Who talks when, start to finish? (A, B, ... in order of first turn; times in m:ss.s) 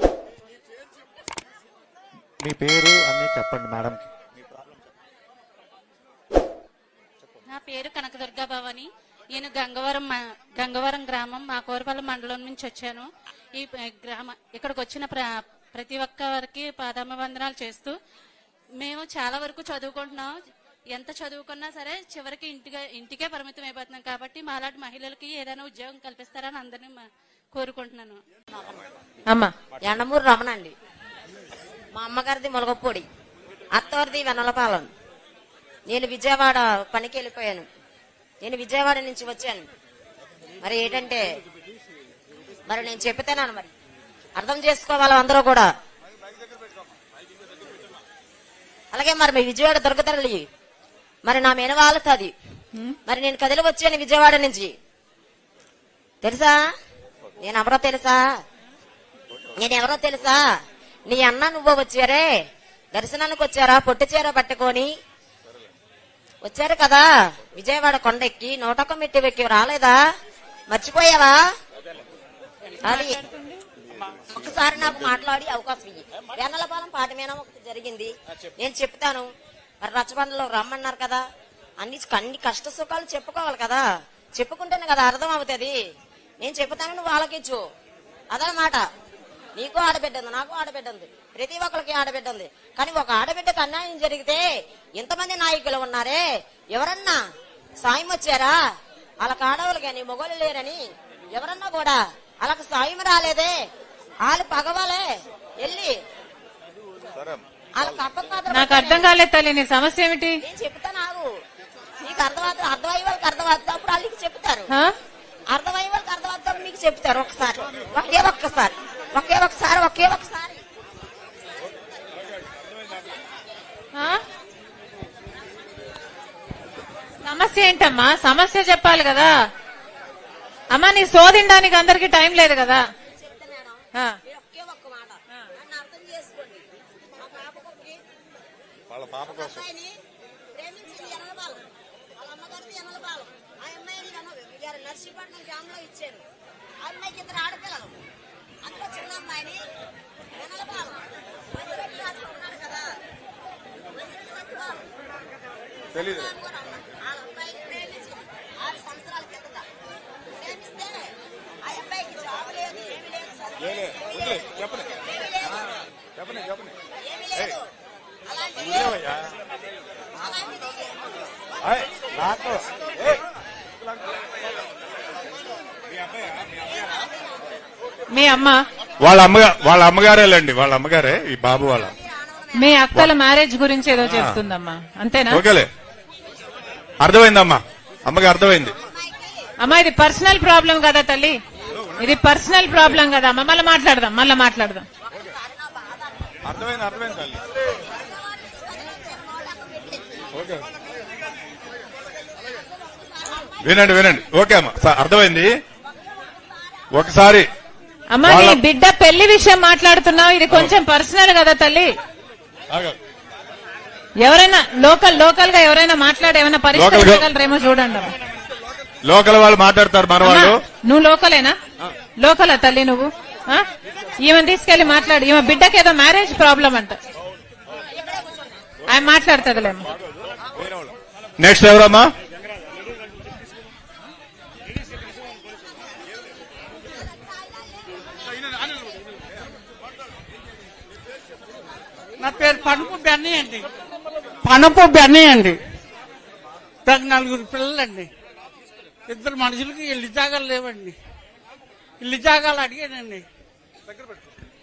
0:02.4-0:04.4 A
0:07.4-0:17.9 B
0:18.8-0:20.3 B
0:20.9-0:28.2 B
0:29.3-0:29.5 C
0:29.8-0:30.7 D
0:31.9-0:33.1 D
0:33.7-0:34.9 D
0:35.9-0:37.7 D
0:38.4-0:39.7 D
0:40.6-0:41.2 D
0:42.7-0:43.7 D
0:44.4-0:45.7 D
0:48.9-0:50.4 D
0:51.2-0:52.3 D
0:53.1-0:54.8 D
0:56.2-0:56.6 D
0:57.4-0:58.2 D
0:59.6-1:00.4 D
1:01.1-1:02.3 D
1:02.9-1:04.9 D
1:06.4-1:10.0 D
1:10.7-1:11.4 D
1:12.8-1:13.6 C
1:12.9-1:13.2 D
1:14.3-1:19.3 D
1:19.8-1:21.2 D
1:21.8-1:23.8 D
1:24.4-1:25.8 D
1:26.4-1:27.6 D
1:28.3-1:28.8 D
1:29.6-1:34.4 D
1:35.0-1:36.2 D
1:36.8-1:37.2 D
1:37.8-1:38.6 D
1:39.2-1:40.8 D
1:41.3-1:43.5 D
1:44.3-1:45.0 D
1:45.6-1:46.0 D
1:47.1-1:48.0 E
1:47.8-1:49.1 D
1:48.5-1:50.4 C
1:50.4-1:51.2 D
1:52.0-1:54.7 D
1:55.5-2:00.6 D
2:04.0-2:04.2 C
2:07.2-2:09.4 C
2:10.7-2:12.9 C
2:13.1-2:16.6 D
2:17.2-2:18.0 D
2:18.9-2:19.7 E
2:19.2-2:19.9 D
2:20.6-2:26.2 D
2:26.8-2:27.9 D
2:28.6-2:29.6 D
2:30.4-2:31.0 D
2:31.5-2:32.9 D
2:34.0-2:34.8 D
2:35.9-2:36.3 E
2:36.0-2:39.6 D
2:40.4-2:40.9 D
2:41.6-2:45.5 D
2:43.7-2:44.9 E
2:46.2-2:46.8 E
2:47.0-2:47.6 D
2:48.3-2:49.0 D
2:48.6-2:49.3 E
2:50.2-2:50.9 D
2:51.6-2:53.2 E
2:58.1-2:58.6 C
2:59.0-3:01.9 E
3:02.0-3:02.5 D
3:02.5-3:05.4 C
3:04.0-3:04.4 E
3:05.3-3:05.7 E
3:07.0-3:08.8 E
3:08.8-3:09.3 D
3:09.6-3:11.4 C
3:11.8-3:12.1 E
3:12.0-3:14.9 C
3:15.4-3:16.2 D
3:16.4-3:17.4 E
3:17.8-3:20.0 D
3:20.3-3:20.6 E
3:23.6-3:25.5 E
3:26.9-3:27.5 E
3:28.1-3:31.9 C
3:28.2-3:28.6 E
3:32.7-3:33.0 E
3:34.2-3:38.1 C
3:36.7-3:37.2 E
3:39.0-3:40.6 E
3:40.2-3:41.6 C
3:42.2-3:43.7 C
3:44.2-3:47.0 C
3:47.9-3:48.4 D
3:48.9-3:49.9 C
3:51.4-3:52.1 E
4:02.2-4:03.7 F
4:04.4-4:05.6 F
4:06.8-4:08.1 F
4:09.1-4:11.0 F
4:12.0-4:13.2 F